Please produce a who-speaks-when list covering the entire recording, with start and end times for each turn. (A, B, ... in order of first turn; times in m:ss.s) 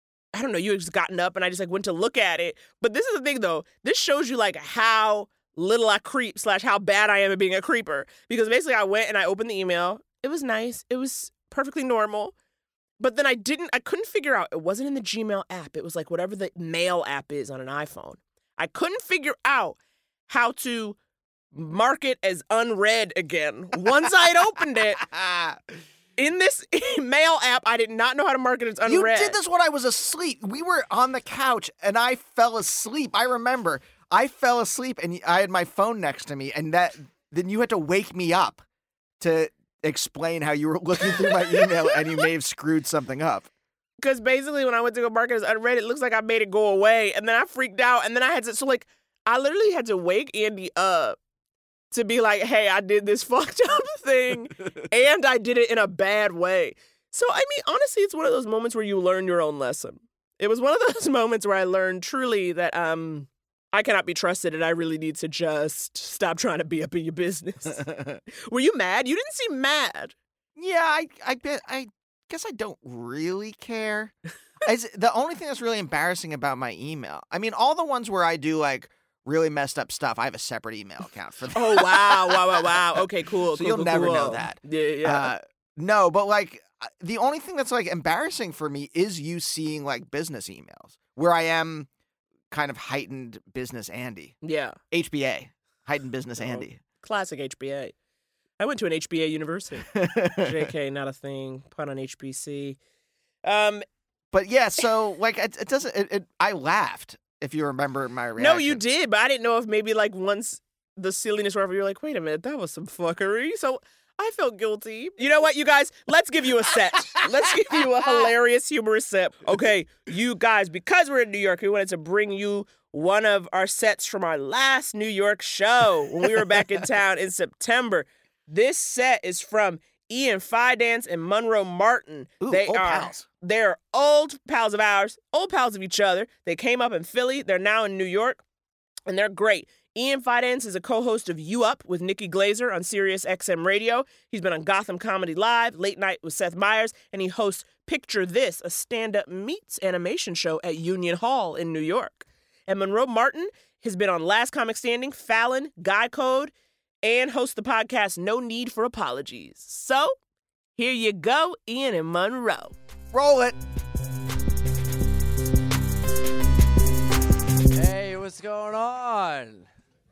0:00.3-0:12.3 A
0:13.0-0:19.8 A
0:20.3-0:21.0 A
0:21.5-0:25.0 A
0:23.9-0:24.2 B
0:24.9-0:25.6 B
0:26.2-0:29.4 A
0:28.8-0:38.6 B
0:39.2-0:43.5 B
0:44.0-0:51.2 A
0:51.9-1:10.2 A
1:07.7-1:08.2 B
1:10.6-1:31.9 B
1:21.5-1:25.3 A
1:32.5-1:34.4 B
1:34.4-1:34.8 A
1:34.9-1:36.8 B
1:36.4-1:37.9 A
1:38.6-1:42.8 A
1:40.0-1:40.6 B
1:43.4-1:43.8 A
1:44.3-1:48.8 B
1:48.4-2:18.4 A
2:12.4-2:13.2 B
2:19.1-2:36.5 A
2:37.0-2:40.1 A
2:40.8-2:42.8 A
2:43.1-2:43.6 B
2:47.7-2:49.7 C